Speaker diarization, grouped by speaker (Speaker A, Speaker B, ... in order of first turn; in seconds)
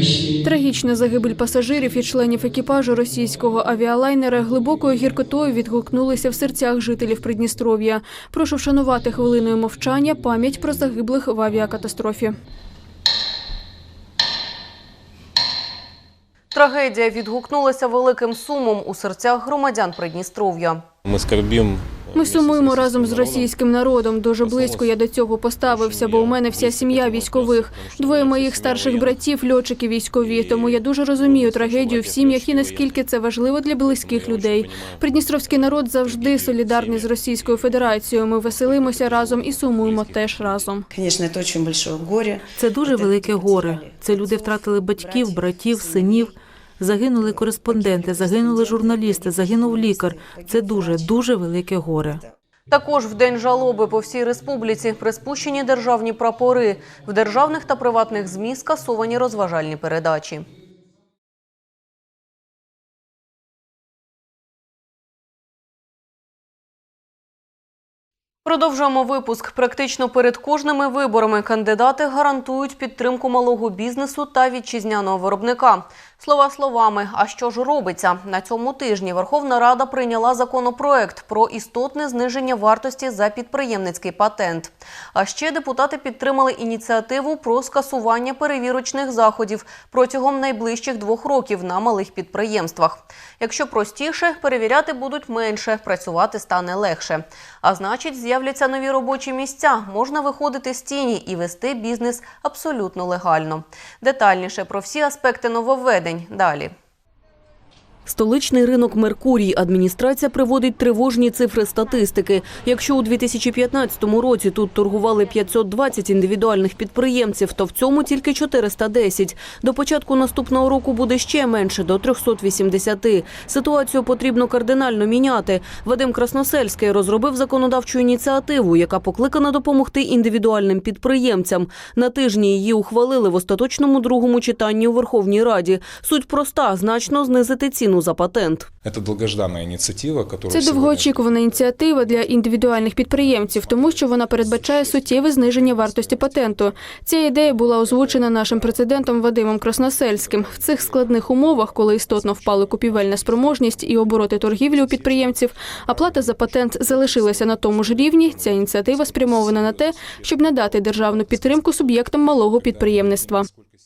Speaker A: 0.4-12.3, 22.1-40.9, 140.5-163.5
Speaker B: 16.5-20.9, 52.7-60.5, 68.5-106.7, 108.1-138.7
Speaker C: 21.1-23.5, 24.4-24.9, 25.7-29.2, 30.2-32.9, 34.0-35.0, 36.0-37.1, 38.8-40.1
Speaker D: 40.9-46.3, 47.7-51.1
Speaker E: 42.6-52.2
Speaker F: 138.8-141.3